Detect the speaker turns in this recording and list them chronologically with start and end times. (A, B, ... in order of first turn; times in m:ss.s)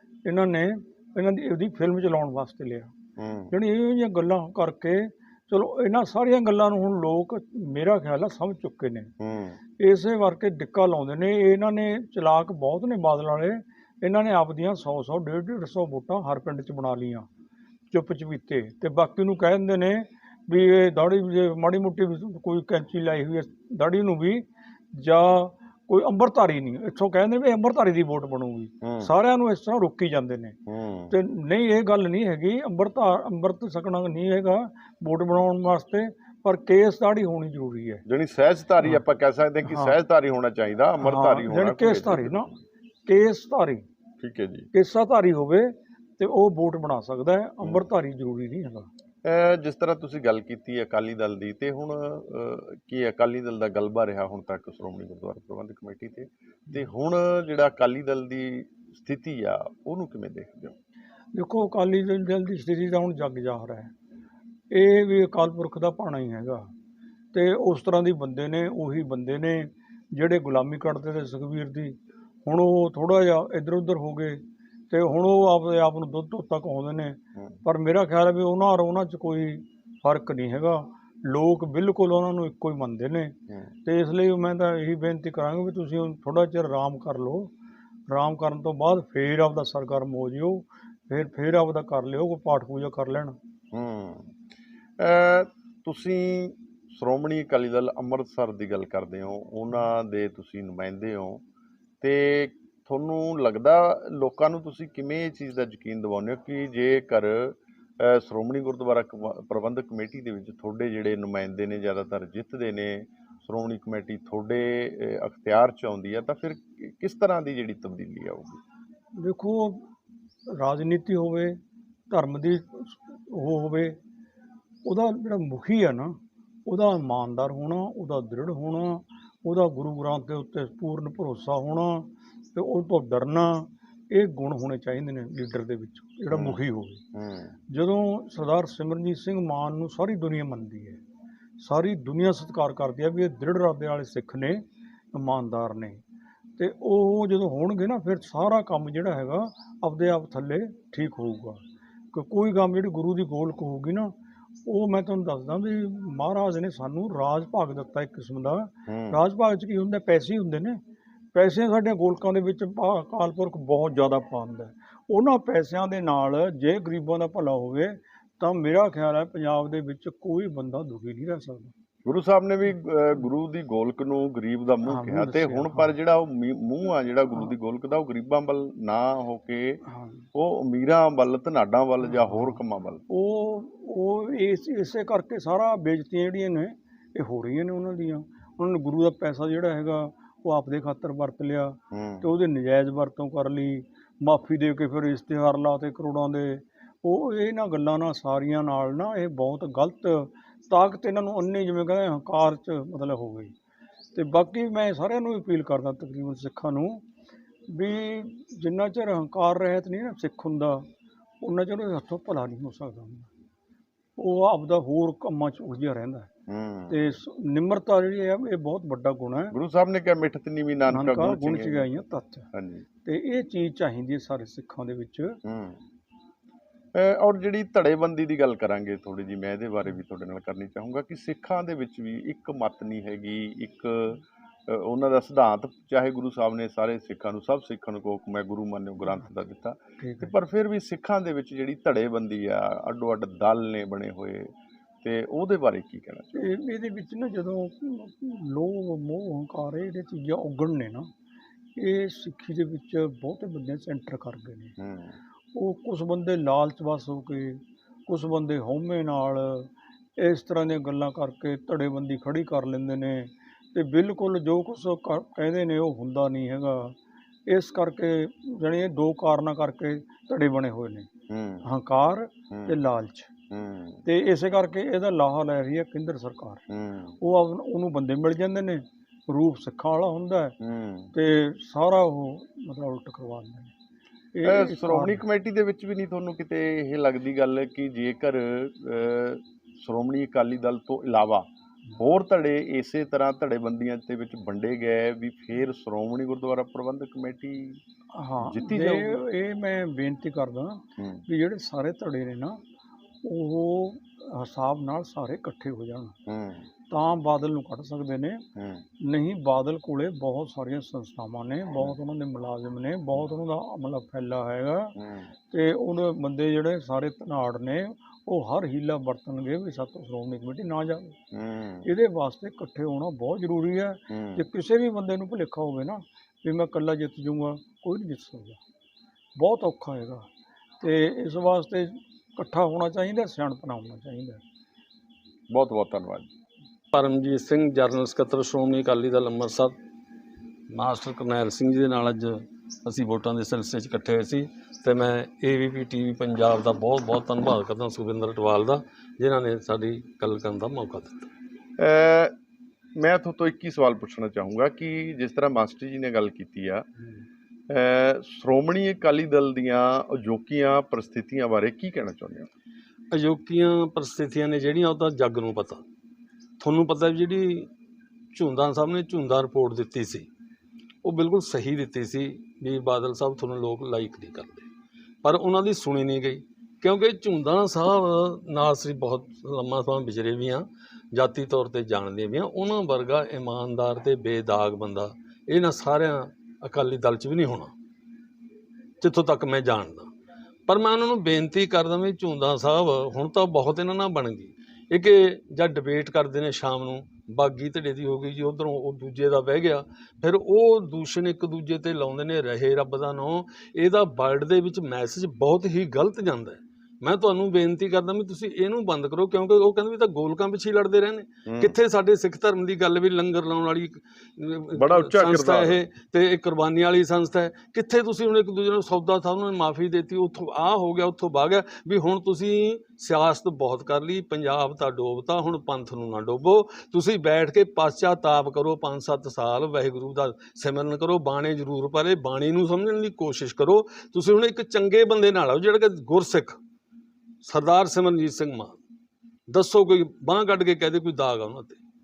0:00.2-0:02.9 A
0:03.2-0:03.5 B
0:03.5-0:09.1 A
0:09.2-0:09.6 B
0:09.8-0:17.3 A
0:17.9-0:30.6 A
0:28.8-0:29.1 B
0:30.7-0:31.2 B
0:31.1-0:38.0 A
0:38.1-0:42.5 B
0:39.7-0:40.0 A
0:41.0-0:42.5 A
0:43.0-0:43.8 A
0:44.2-0:44.7 B
0:44.7-0:48.9 A
0:49.2-1:00.7 B
1:01.3-1:03.9 A
1:04.7-1:06.7 A
1:07.3-1:27.5 A
1:28.1-1:33.4 A
1:33.7-1:34.3 B
1:35.0-1:41.4 B
1:42.0-1:58.6 B
1:59.2-1:59.8 A
2:00.6-2:01.6 A
2:02.1-2:04.0 A
2:04.8-2:06.2 A
2:06.7-2:17.0 A
2:16.3-2:16.6 B
2:17.1-2:17.5 B
2:17.7-2:21.0 A
2:21.6-2:26.0 A
2:26.6-2:34.1 A
2:34.7-2:40.8 A
2:38.9-2:39.2 B
2:41.3-2:51.7 A
2:52.1-2:59.8 B
2:54.8-2:55.9 A
2:59.9-3:00.2 A
3:00.4-3:03.0 B
3:02.3-3:02.6 A
3:03.1-3:23.5 A
3:11.9-3:12.3 B
3:24.2-3:27.0 A
3:27.7-3:30.9 A
3:31.4-3:33.3 A
3:34.2-3:36.3 A
3:36.5-3:37.1 B
3:36.9-3:39.6 A
3:39.5-3:42.0 B
3:40.9-3:42.5 A
3:42.5-3:42.9 B
3:43.0-3:45.4 A
3:45.4-3:45.8 B
3:47.0-4:06.5 B
4:00.0-4:00.3 A
4:06.4-4:11.1 A
4:11.8-4:14.8 A
4:14.8-4:15.2 B
4:15.5-4:27.0 A
4:27.5-4:31.1 A
4:31.3-4:31.7 B
4:31.6-4:33.3 A
4:32.5-4:32.8 B
4:33.5-4:34.0 B
4:34.0-4:36.6 A
4:36.7-4:37.2 B
4:37.2-4:40.6 A
4:40.6-4:41.1 B
4:41.1-4:43.7 A
4:44.3-4:45.2 A
4:44.4-4:57.8 B
4:58.1-5:02.6 A
4:58.4-4:59.2 B
5:01.0-5:01.2 B
5:03.2-5:06.2 A
5:06.3-5:06.7 B
5:06.9-5:08.4 A
5:08.6-5:08.8 B
5:09.0-5:15.0 A
5:15.0-5:15.3 B
5:15.5-5:21.2 A
5:21.3-5:21.9 B
5:21.8-5:28.6 A
5:24.1-5:24.4 B
5:29.4-5:30.3 A
5:30.8-5:34.4 A
5:35.5-5:36.3 B
5:36.9-5:39.7 C
5:40.7-5:51.3 C
5:51.8-5:52.3 B
5:53.0-5:56.8 B
5:57.7-6:02.5 B
6:03.1-6:05.8 C
6:06.6-6:07.7 C
6:08.3-6:10.3 C
6:11.0-6:14.7 C
6:15.2-6:27.7 C
6:29.0-6:30.1 C
6:30.7-7:16.6 C
6:51.5-6:51.8 B
6:54.7-6:55.8 B
7:17.4-7:18.8 C
7:19.5-7:21.8 C